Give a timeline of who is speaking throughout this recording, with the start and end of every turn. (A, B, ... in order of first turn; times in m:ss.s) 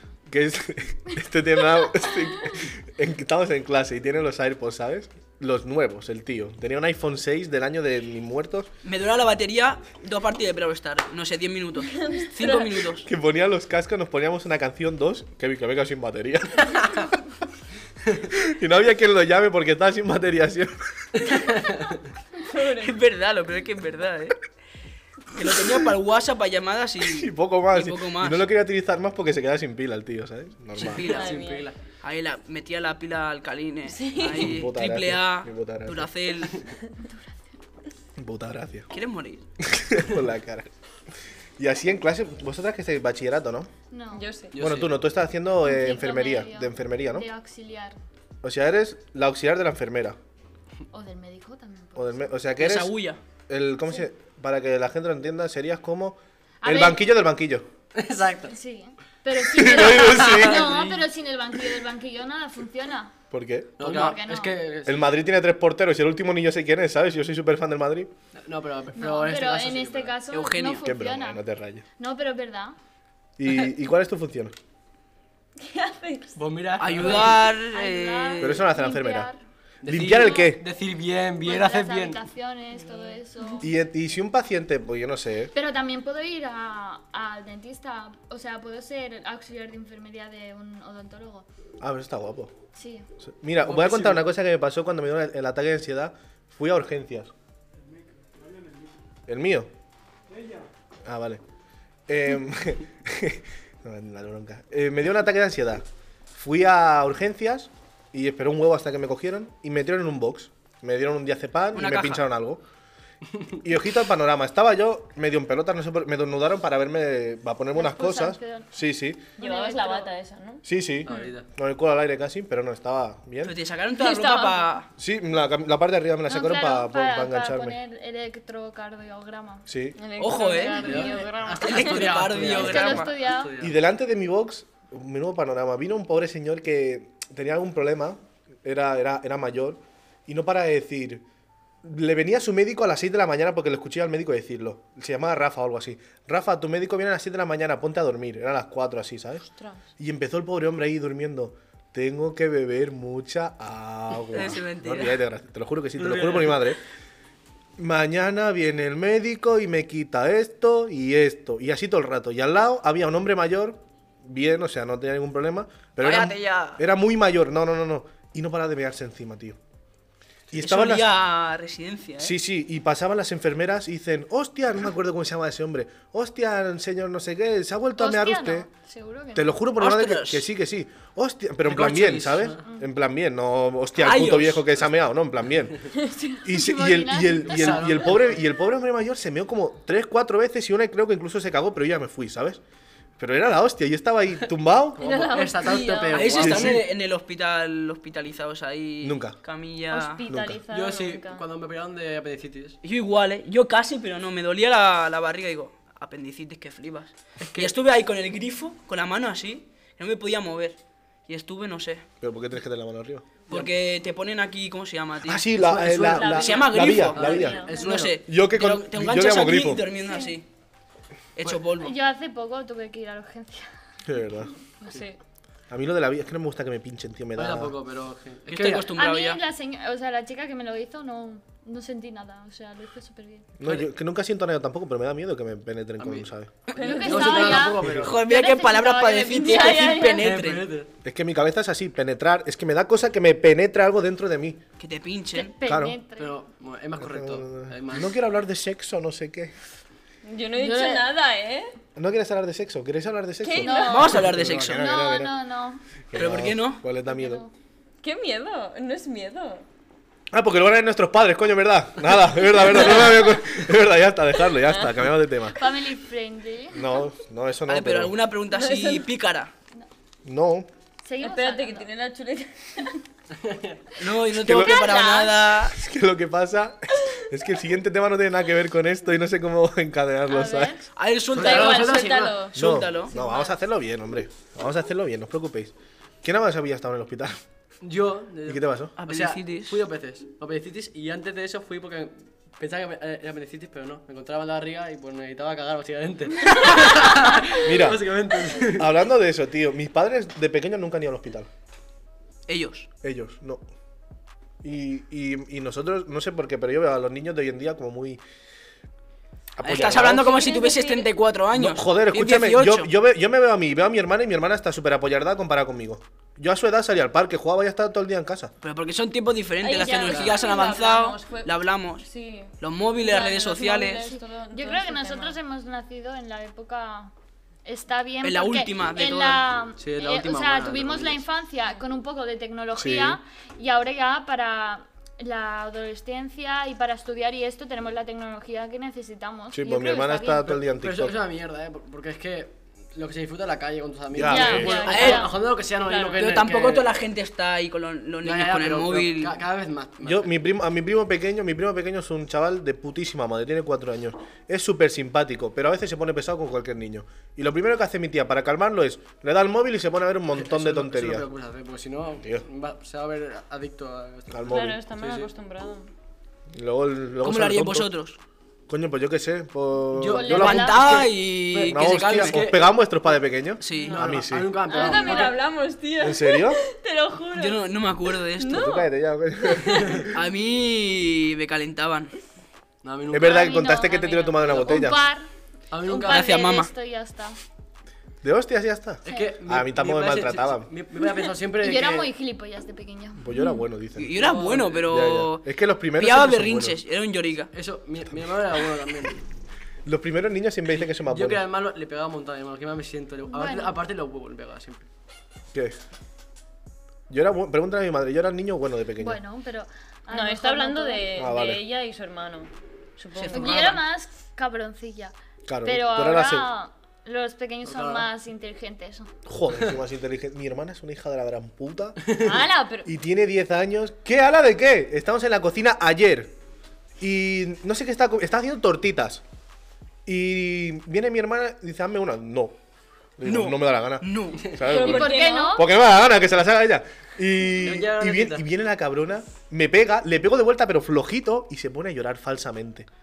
0:00.3-0:08.7 A
0:08.8-0:13.1 B
0:11.9-0:12.8 C
0:13.0-0:17.1 A
0:18.3-0:21.3 A
0:21.2-0:22.0 D
0:22.4-0:23.0 C
0:22.8-0:24.4 B
0:25.3-0:28.5 B
0:27.0-0:31.0 A
0:30.8-0:31.4 B
0:31.0-0:31.7 C
0:31.1-0:31.8 D
0:32.0-0:36.6 B
0:33.9-0:34.6 C
0:34.4-0:36.1 A
0:37.0-0:37.3 E
0:38.2-0:38.9 A
0:38.9-0:39.4 B
0:39.6-0:40.7 A
0:41.6-0:43.7 A
0:43.9-0:44.3 E
0:44.1-0:44.6 C
0:44.5-0:45.0 D
0:44.6-0:47.3 A
0:45.6-0:48.0 E
0:48.4-0:50.2 A
0:50.9-0:52.3 E
0:52.0-0:52.9 A
0:52.6-0:53.2 B
0:53.5-0:57.7 A
0:56.6-0:57.1 E
0:57.9-0:58.6 D
0:58.5-1:03.1 E
0:59.5-1:00.7 A
0:59.6-1:01.1 D
1:03.3-1:04.0 A
1:03.8-1:05.0 D
1:03.8-1:04.6 E
1:04.8-1:08.1 A
1:08.4-1:10.2 D
1:09.0-1:11.4 E
1:10.3-1:10.9 B
1:10.8-1:11.8 A
1:12.0-1:12.8 E
1:13.4-1:14.5 A
1:15.6-1:16.4 C
1:16.4-1:17.3 D
1:16.8-1:18.6 B
1:17.0-1:19.4 E
1:18.4-1:19.3 A
1:19.8-1:22.2 D
1:19.9-1:20.6 A
1:21.4-1:23.7 E
1:22.7-1:23.6 C
1:23.6-1:25.5 A
1:25.5-1:31.5 E
1:31.8-1:32.5 A
1:32.8-1:33.1 E
1:33.2-1:37.3 A
1:33.6-1:34.2 D
1:39.3-1:39.7 A
1:41.0-1:41.4 A
1:42.1-1:52.6 A
1:51.7-1:52.3 B
1:53.6-1:59.3 A
1:57.7-1:58.7 E
1:59.4-2:00.1 E
1:59.4-2:01.3 C
2:00.6-2:03.5 A
2:01.0-2:01.5 D
2:03.4-2:04.9 B
2:03.9-2:04.8 C
2:05.0-2:07.8 A
2:06.3-2:09.7 E
2:09.7-2:10.0 A
2:10.0-2:12.1 C
2:10.2-2:13.2 B
2:10.7-2:11.1 E
2:10.8-2:13.8 D
2:12.4-2:13.5 E
2:13.6-2:21.2 A
2:21.8-2:29.4 A
2:29.5-2:29.8 C
2:30.0-2:36.8 A
2:34.3-2:35.2 B
2:36.0-2:36.6 D
2:37.8-2:49.6 A
2:46.0-2:46.8 B
2:50.5-2:51.1 A
2:50.6-2:52.4 B
2:52.2-2:58.7 A
2:58.0-2:59.5 E
2:59.4-3:05.8 A
2:59.8-3:00.5 B
3:01.7-3:02.6 D
3:04.0-3:04.6 B
3:06.3-3:08.2 E
3:06.4-3:12.6 A
3:07.4-3:08.4 D
3:13.2-3:15.3 A
3:15.0-3:16.8 D
3:15.0-3:16.4 C
3:15.6-3:20.2 B
3:16.4-3:16.9 A
3:19.0-3:19.4 A
3:19.9-3:21.5 C
3:20.3-3:20.6 A
3:20.7-3:22.8 D
3:22.8-3:32.0 B
3:32.2-3:33.3 A
3:33.5-3:40.5 B
3:35.2-3:37.6 A
3:35.6-3:38.2 D
3:36.2-3:36.8 E
3:36.2-3:36.6 C
3:37.2-3:37.8 C
3:37.4-3:37.8 E
3:38.3-3:39.8 A
3:40.0-3:40.3 E
3:41.4-3:41.9 B
3:41.8-3:43.7 E
3:44.1-3:44.5 A
3:44.9-3:45.2 C
3:45.7-3:47.7 A
3:47.4-3:48.9 D
3:48.5-3:49.4 B
3:48.9-3:53.5 E
3:53.6-3:56.5 A
3:56.0-3:58.2 D
3:56.8-3:57.7 C
3:56.8-4:00.2 E
3:57.8-3:58.1 A
3:57.9-4:00.7 B
3:59.3-4:00.3 C
4:00.2-4:00.9 D
4:01.0-4:04.6 A
4:04.8-4:05.6 B
4:05.3-4:06.4 E
4:05.6-4:06.0 A
4:06.2-4:08.1 D
4:07.0-4:09.5 A
4:10.2-4:11.7 C
4:10.6-4:11.1 E
4:12.0-4:15.3 A
4:13.4-4:14.2 C
4:13.6-4:15.8 E
4:13.9-4:14.8 B
4:16.1-4:17.4 A
4:16.2-4:16.8 B
4:17.0-4:17.5 E
4:18.0-4:19.7 C
4:20.3-4:25.6 A
4:24.6-4:25.0 C
4:25.5-4:27.0 E
4:26.7-4:28.2 A
4:27.7-4:29.5 B
4:28.5-4:29.1 C
4:30.2-4:30.7 A
4:31.0-4:31.9 E
4:31.2-4:33.0 C
4:33.3-4:33.8 D
4:34.0-4:35.8 B
4:34.4-4:34.8 A
4:34.4-4:35.4 E
4:35.6-4:40.8 A
4:40.3-4:40.8 E
4:41.0-4:43.1 B
4:41.3-4:42.4 D
4:41.4-4:42.6 C
4:42.6-4:47.4 A
4:43.1-4:43.5 E
4:47.8-4:58.9 D
4:48.5-4:48.9 A
4:49.0-4:49.8 B
4:57.6-4:58.1 A
4:58.6-5:01.5 A
5:02.5-5:02.9 B
5:03.0-5:03.6 A
5:04.6-5:08.2 A
5:09.6-5:10.3 A
5:09.6-5:12.9 B
5:09.7-5:11.1 C
5:11.5-5:18.5 A
5:18.6-5:22.0 B
5:19.6-5:25.4 C
5:20.1-5:20.4 D
5:22.6-5:24.0 B
5:24.0-5:27.1 E
5:27.6-5:40.5 E
5:28.2-5:29.5 B
5:29.8-5:31.2 D
5:32.8-5:33.2 A
5:39.5-5:41.2 A
5:40.5-5:46.9 D
5:44.1-5:44.8 A
5:44.2-5:45.4 E
5:44.6-5:45.2 C
5:44.8-5:45.3 B
5:45.8-5:46.2 C
5:46.2-5:49.4 B
5:48.2-5:50.3 D
5:50.0-6:01.3 A
6:00.3-6:05.3 D
6:04.3-6:04.8 A
6:04.5-6:05.9 C
6:06.5-6:07.9 A
6:07.2-6:08.2 B
6:08.7-6:14.5 A
6:09.9-6:10.7 D
6:10.1-6:11.1 E
6:10.3-6:12.4 B
6:11.6-6:12.8 D
6:13.6-6:14.1 B
6:13.7-6:14.0 C
6:13.8-6:15.4 D
6:14.7-6:17.7 C
6:14.7-6:15.2 E
6:16.0-6:16.6 A
6:17.4-6:18.7 B
6:18.4-6:20.1 C
6:18.5-6:20.0 A
6:20.1-6:22.1 B
6:22.8-6:23.4 D
6:23.1-6:25.1 A
6:23.2-6:25.3 E
6:24.4-6:24.9 D
6:25.7-6:26.4 D
6:25.8-6:27.4 E
6:26.0-6:26.7 B
6:28.2-6:30.7 A
6:29.0-6:32.1 D
6:29.1-6:29.4 E
6:31.0-6:33.5 E
6:33.2-6:34.1 A
6:34.0-6:37.5 B
6:34.2-6:34.9 D
6:34.8-6:36.8 A
6:37.5-6:39.2 D
6:39.8-6:41.4 A
6:40.7-6:44.9 D
6:43.3-6:43.8 E
6:47.1-6:49.2 A
6:49.0-6:51.2 E
6:50.1-6:53.8 C
6:51.2-6:51.6 A
6:53.2-6:53.8 B
6:53.3-6:59.1 E
6:55.5-6:56.5 A
6:57.6-6:58.1 D
6:59.3-7:02.2 A
7:02.0-7:02.3 D
7:02.2-7:02.8 E
7:02.2-7:02.9 C
7:02.8-7:06.3 A
7:07.0-7:09.2 A
7:10.1-7:12.6 A
7:13.2-7:22.9 A
7:13.2-7:14.6 B
7:14.6-7:15.7 C
7:14.7-7:15.7 E
7:17.6-7:18.4 D